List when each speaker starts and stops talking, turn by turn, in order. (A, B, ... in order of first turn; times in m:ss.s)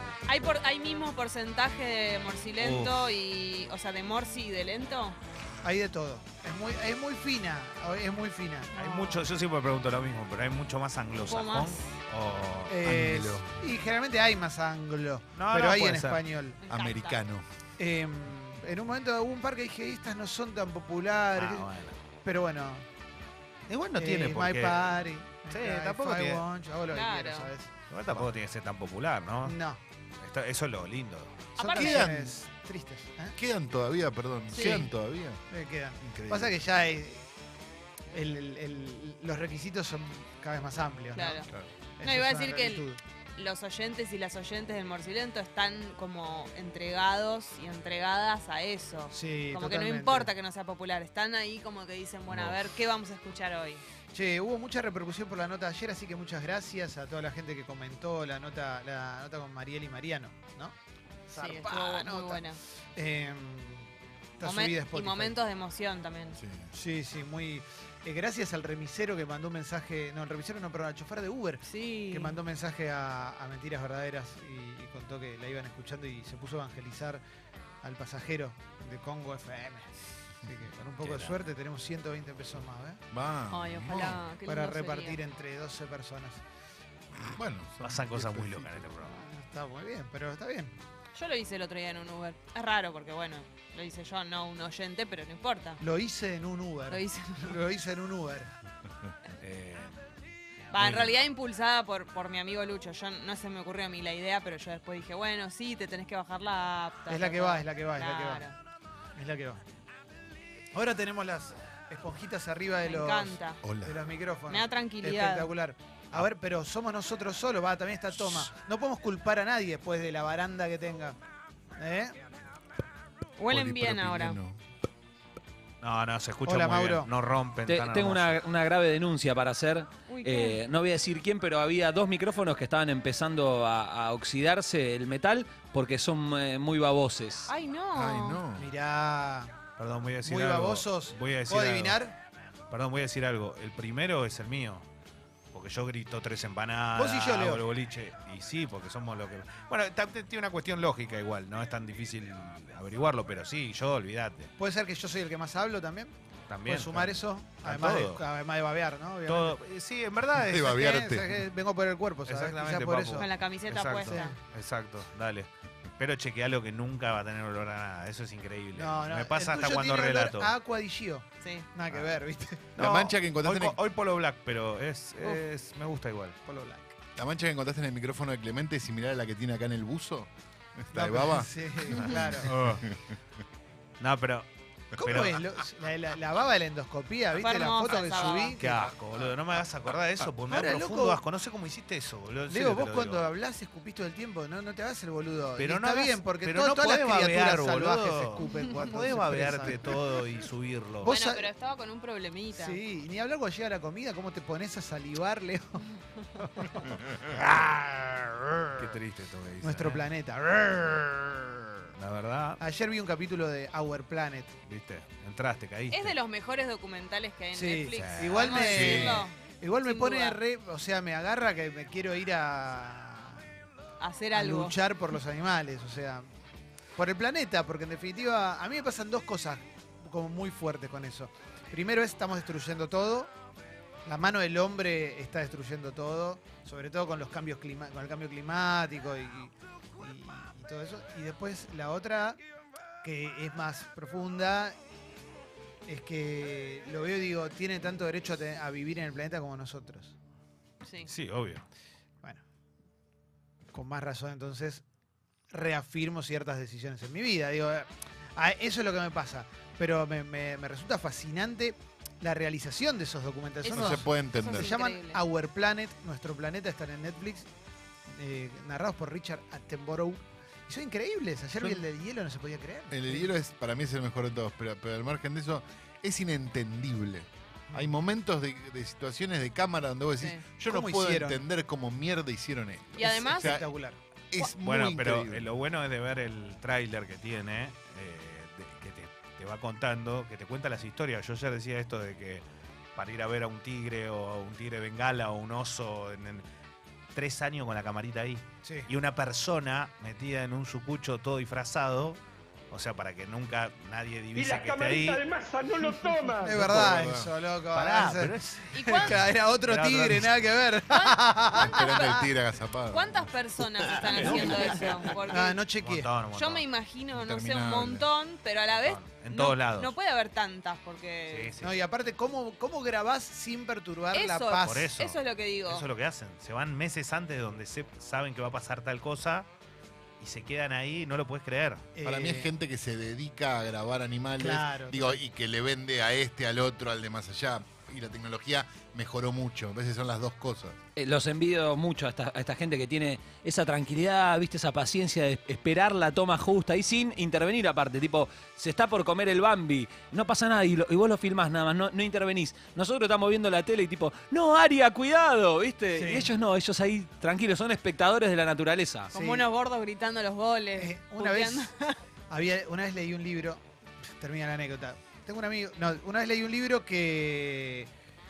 0:00.3-0:05.2 A
0:02.6-0:03.1 B
0:05.6-0:08.7 C
0:08.7-0:09.2 A
0:08.8-0:12.8 B
0:11.2-0:11.9 A
0:12.7-0:16.6 C
0:12.8-0:13.5 D
0:15.3-0:16.2 B
0:16.6-0:17.2 A
0:16.7-0:17.4 D
0:17.8-0:21.7 C
0:21.3-0:22.0 B
0:22.2-0:22.8 C
0:23.7-0:26.4 B
0:23.9-0:28.3 C
0:26.9-0:27.5 A
0:27.9-0:29.6 B
0:29.4-0:29.8 C
0:30.2-0:31.5 B
0:31.6-0:32.1 A
0:31.6-0:33.4 C
0:31.7-0:32.3 D
0:33.3-0:35.4 D
0:34.5-0:34.8 A
0:34.5-0:34.9 B
0:35.5-0:37.2 C
0:36.1-0:36.5 D
0:38.1-0:41.4 C
0:41.1-0:41.5 A
0:42.0-0:43.0 C
0:42.0-0:53.8 A
0:49.1-0:50.3 C
0:52.3-0:52.6 B
0:54.1-1:00.7 C
1:01.3-1:02.4 C
1:01.3-1:02.6 A
1:03.0-1:05.4 C
1:04.4-1:06.4 A
1:06.4-1:06.7 D
1:06.7-1:17.2 C
1:11.6-1:12.4 A
1:17.8-1:23.0 C
1:21.0-1:21.5 B
1:23.1-1:24.2 D
1:23.5-1:25.2 A
1:24.4-1:26.4 C
1:27.3-1:28.9 D
1:27.8-1:29.2 B
1:29.0-1:30.7 C
1:31.1-1:35.8 A
1:35.8-1:38.5 C
1:36.9-1:37.6 A
1:39.4-1:40.0 B
1:40.7-1:48.6 A
1:40.7-1:41.2 B
1:47.1-1:48.4 C
1:49.1-1:49.6 C
1:50.7-2:01.2 C
1:52.8-1:53.6 A
1:53.6-1:54.0 D
1:54.5-1:55.5 A
2:01.8-2:02.2 C
2:03.4-2:04.4 A
2:03.5-2:04.6 D
2:05.8-2:08.4 B
2:06.4-2:07.1 C
2:07.6-2:17.5 E
2:10.1-2:10.6 A
2:17.4-2:18.4 A
2:17.9-2:18.7 D
2:18.5-2:19.5 C
2:19.8-2:22.0 B
2:20.2-2:22.2 C
2:22.7-2:24.8 B
2:25.5-2:34.5 B
2:26.9-2:27.6 C
2:34.6-2:36.1 C
2:36.5-2:38.2 B
2:36.6-2:39.6 C
2:39.2-2:40.8 B
2:40.4-2:41.4 D
2:40.6-2:43.4 C
2:42.2-2:50.5 B
2:43.2-2:44.3 A
2:44.0-2:44.4 C
2:48.7-2:52.7 C
2:51.4-2:51.7 A
2:51.9-2:52.2 B
2:52.7-2:56.4 B
2:52.8-2:53.8 D
2:56.4-2:56.9 C
2:57.2-3:03.2 D
3:00.9-3:02.5 C
3:04.0-3:05.4 B
3:05.0-3:09.4 C
3:07.4-3:08.6 A
3:08.6-3:13.3 B
3:10.4-3:11.2 C
3:12.5-3:20.0 C
3:15.6-3:21.1 B
3:21.0-3:21.5 C
3:21.0-3:22.8 A
3:22.5-3:25.8 C
3:26.4-3:28.9 C
3:28.8-3:30.1 B
3:29.6-3:31.6 C
3:31.9-3:32.6 B
3:32.6-3:34.5 C
3:34.6-3:36.1 B
3:35.9-3:40.4 A
3:37.5-3:43.4 C
3:37.9-3:38.8 B
3:38.6-3:39.3 D
3:44.0-3:44.8 A
3:44.3-3:46.3 C
3:47.0-3:53.3 C
3:54.0-4:02.4 C
4:03.0-4:04.8 C
4:05.9-4:10.1 C
4:10.8-4:11.1 A
4:11.0-4:11.6 B
4:13.7-4:14.8 C
4:15.5-4:27.5 C
4:23.6-4:25.2 A
4:23.7-4:24.7 D
4:28.1-4:33.3 C
4:32.9-4:43.7 D
4:37.7-4:38.0 C
4:40.6-4:41.4 C
4:42.9-4:43.6 A
4:43.0-4:44.0 C
4:44.3-4:45.4 D
4:44.6-4:56.4 B
4:57.1-5:05.3 B
4:58.6-4:58.9 C
5:04.3-5:06.5 F
5:05.8-5:06.2 B
5:06.4-5:12.0 C
5:06.5-5:07.3 D
5:07.7-5:10.4 B
5:08.7-5:09.2 A
5:10.9-5:12.3 A
5:11.6-5:13.2 D
5:12.9-5:15.6 A
5:14.1-5:14.7 B
5:15.3-5:16.1 C
5:15.8-5:16.6 B
5:16.3-5:21.5 A
5:17.1-5:18.1 D
5:18.7-5:19.9 B
5:21.3-5:21.8 B
5:21.6-5:24.9 C
5:24.1-5:25.8 A
5:24.6-5:29.5 B
5:30.2-5:31.9 B
5:31.9-5:32.5 C
5:32.0-5:40.8 D
5:34.4-5:35.2 C
5:41.0-5:59.1 E
5:55.9-5:56.3 C
5:59.1-6:02.0 A
5:59.1-5:59.5 C
6:00.8-6:01.7 C
6:02.3-6:03.6 C
6:04.2-6:07.9 C